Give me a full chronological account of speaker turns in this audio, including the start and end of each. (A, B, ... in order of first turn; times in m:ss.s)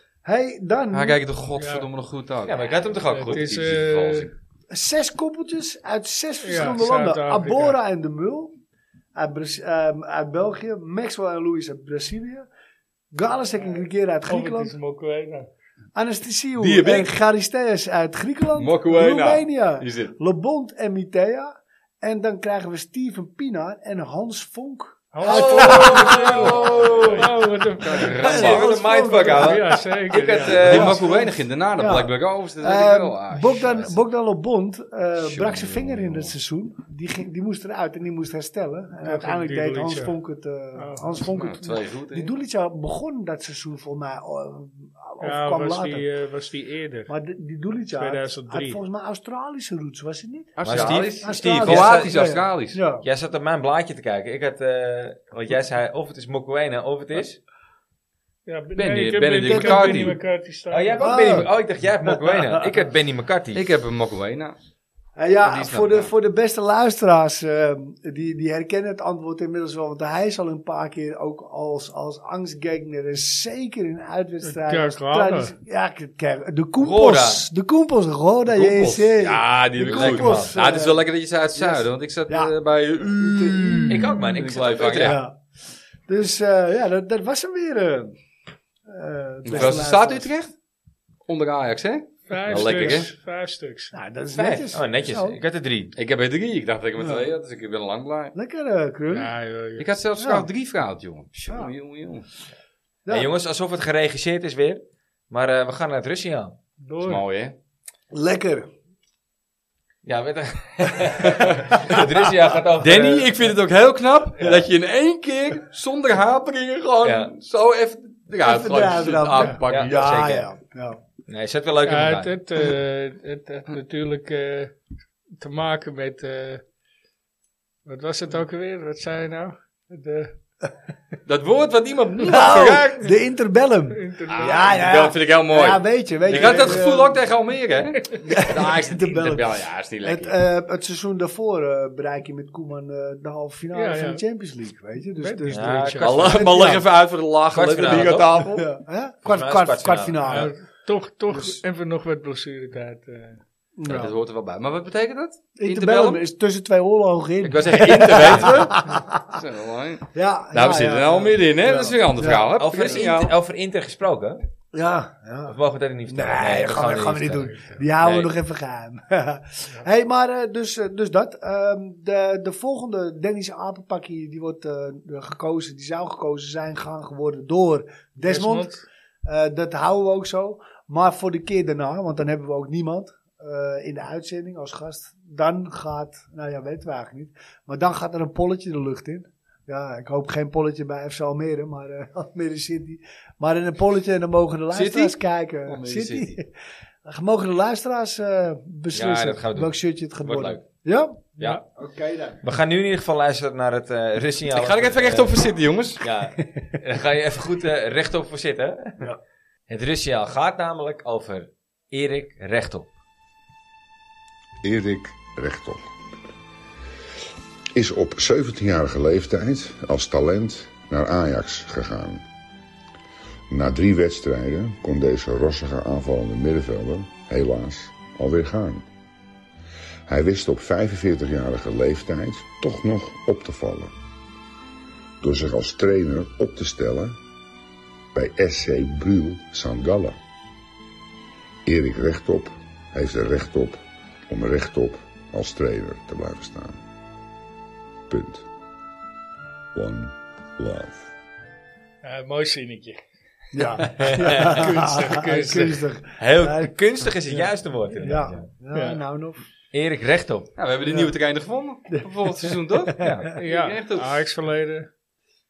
0:00.2-0:01.2 A
0:00.9-0:02.8 B
0:01.6-0:01.9 C
0:02.4-0:03.5 D
0:03.1-0:04.3 C
0:03.3-0:04.3 B
0:04.7-0:08.6 A
0:06.4-0:07.8 C
0:09.2-0:12.5 A
0:13.1-0:14.7 A
0:13.5-0:15.5 C
0:16.0-0:27.1 A
0:16.6-0:17.1 B
0:18.6-0:20.2 B
0:25.1-0:28.2 C
0:25.3-0:27.3 B
0:25.3-0:27.3 D
0:27.8-0:28.7 B
0:28.2-0:29.6 A
0:28.2-0:31.3 D
0:29.1-0:30.7 C
0:30.4-0:46.1 A
0:30.6-0:34.0 B
0:35.3-0:36.3 B
0:39.0-0:40.1 C
0:40.8-0:41.1 C
0:41.3-0:42.3 B
0:45.2-0:47.1 C
0:47.1-0:53.0 A
0:47.9-0:48.8 C
0:50.6-0:52.8 B
0:50.7-0:52.5 D
0:53.0-0:57.4 D
0:58.5-1:01.4 C
0:58.8-1:00.2 B
0:59.5-1:00.2 A
1:00.7-1:03.6 D
1:01.0-1:01.5 A
1:02.0-1:02.7 A
1:03.5-1:04.6 B
1:05.2-1:21.0 A
1:05.4-1:06.1 B
1:14.4-1:15.5 C
1:16.8-1:17.4 D
1:18.4-1:25.2 B
1:19.9-1:20.5 D
1:21.6-1:25.4 A
1:23.9-1:25.2 D
1:26.1-1:28.2 A
1:28.9-1:30.3 A
1:29.5-1:29.8 D
1:29.5-1:30.5 B
1:31.3-1:33.1 B
1:32.3-1:33.9 C
1:32.7-1:33.0 A
1:33.9-1:35.4 A
1:34.3-1:35.9 D
1:36.0-1:38.4 B
1:37.0-1:37.3 A
1:38.4-1:39.3 A
1:39.1-1:39.9 C
1:39.8-1:42.3 B
1:40.2-1:40.5 A
1:43.1-1:46.6 D
1:46.8-1:47.2 C
1:47.0-1:47.6 B
1:48.1-1:48.7 A
1:50.0-1:53.3 D
1:51.2-1:52.0 B
1:52.8-2:00.2 B
1:57.0-1:57.3 D
1:58.4-2:01.0 A
1:59.7-2:00.5 D
2:01.3-2:02.3 D
2:01.8-2:04.8 C
2:05.4-2:06.6 C
2:07.9-2:10.3 C
2:11.3-2:13.0 B
2:12.2-2:17.2 A
2:13.9-2:14.9 C
2:14.3-2:20.4 B
2:16.3-2:16.8 C
2:18.2-2:19.5 A
2:20.0-2:26.8 A
2:23.7-2:24.2 C
2:25.2-2:26.1 C
2:25.5-2:26.7 D
2:26.0-2:28.7 B
2:27.5-2:28.4 D
2:28.4-2:30.5 A
2:29.2-2:30.5 D
2:30.2-2:33.4 C
2:31.3-2:31.6 A
2:33.8-2:34.1 A
2:33.9-2:36.2 B
2:35.6-2:39.2 A
2:37.4-2:43.3 B
2:38.2-2:38.6 D
2:40.2-2:42.5 A
2:42.6-2:44.4 D
2:44.7-2:45.6 A
2:45.5-2:48.3 D
2:46.1-3:16.5 A
2:47.5-2:47.8 C
2:58.2-2:58.9 C
3:14.7-3:16.4 B
3:17.0-3:22.4 A
3:18.9-3:20.6 D
3:21.4-3:21.6 D
3:22.4-3:25.4 D
3:24.5-3:26.0 B
3:26.0-3:29.1 D
3:29.7-3:32.9 D
3:34.6-3:35.9 E
3:37.8-3:42.2 E
3:43.5-3:48.9 E
3:50.1-3:53.9 E
3:55.2-3:57.2 E
3:58.2-4:00.2 E
4:01.7-4:06.8 E
4:08.1-4:08.5 E
4:09.8-4:11.1 E
4:12.0-4:13.0 C
4:13.5-4:16.8 A
4:13.9-4:15.8 C
4:14.0-4:14.6 D
4:16.2-4:18.5 D
4:18.0-4:19.4 A
4:18.7-4:19.0 C
4:19.7-4:20.5 D
4:20.6-4:24.2 B
4:20.9-4:21.1 A
4:21.9-4:23.3 A
4:23.0-4:23.3 D
4:23.4-4:24.9 C